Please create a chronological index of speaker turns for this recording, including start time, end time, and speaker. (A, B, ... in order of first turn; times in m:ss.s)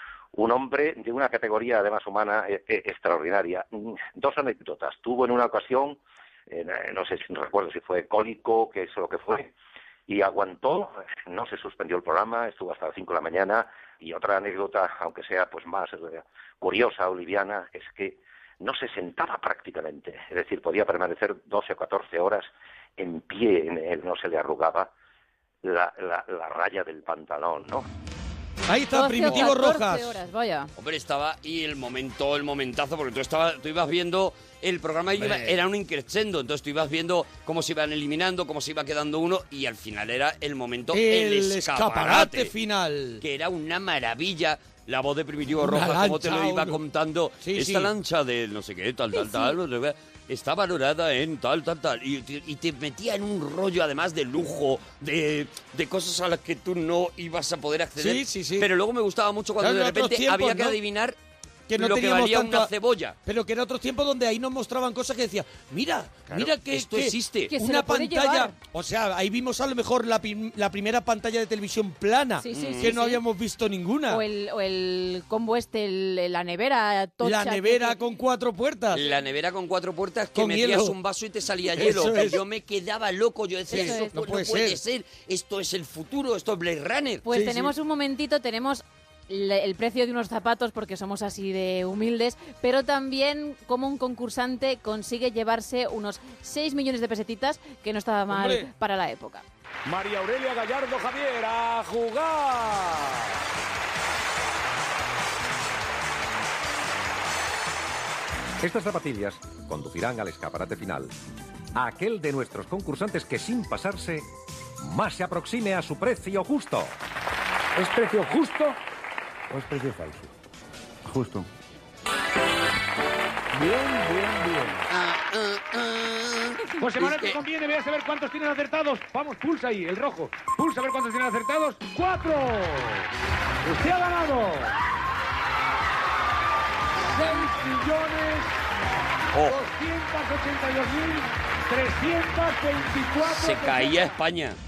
0:00.3-0:09.5 A
0:10.1-0:24.9 A
0:25.6-0:27.8 A
0:28.7-0:30.1 B
0:28.9-0:30.7 C
0:29.3-0:29.5 D
0:30.8-0:42.5 D
0:35.2-0:35.5 B
0:40.9-0:43.2 B
0:43.2-1:01.2 D
0:45.6-0:46.8 B
0:47.4-0:47.9 B
0:49.1-0:49.5 C
0:58.0-0:58.7 B
0:59.6-1:00.8 B
1:01.7-1:02.7 B
1:01.7-1:03.2 D
1:03.2-1:14.2 B
1:06.3-1:07.5 D
1:07.5-1:08.5 C
1:12.4-1:13.2 C
1:12.5-1:13.0 D
1:14.1-1:18.0 C
1:17.2-1:19.0 B
1:18.9-1:27.3 D
1:20.3-1:20.9 B
1:21.7-1:22.4 B
1:23.7-1:24.1 C
1:23.7-1:24.8 B
1:27.2-1:39.4 C
1:27.3-1:27.7 B
1:38.3-1:38.7 B
1:39.8-1:43.3 E
1:48.6-1:51.1 F
1:51.8-1:54.2 F
1:54.8-1:56.9 F
1:57.8-1:58.7 E
2:03.5-2:04.8 E
2:04.9-2:07.4 D
2:06.8-2:13.1 E
2:13.6-2:14.7 E
2:17.0-2:18.5 E
2:19.3-2:19.6 D
2:19.5-2:24.2 E
2:23.2-2:24.6 D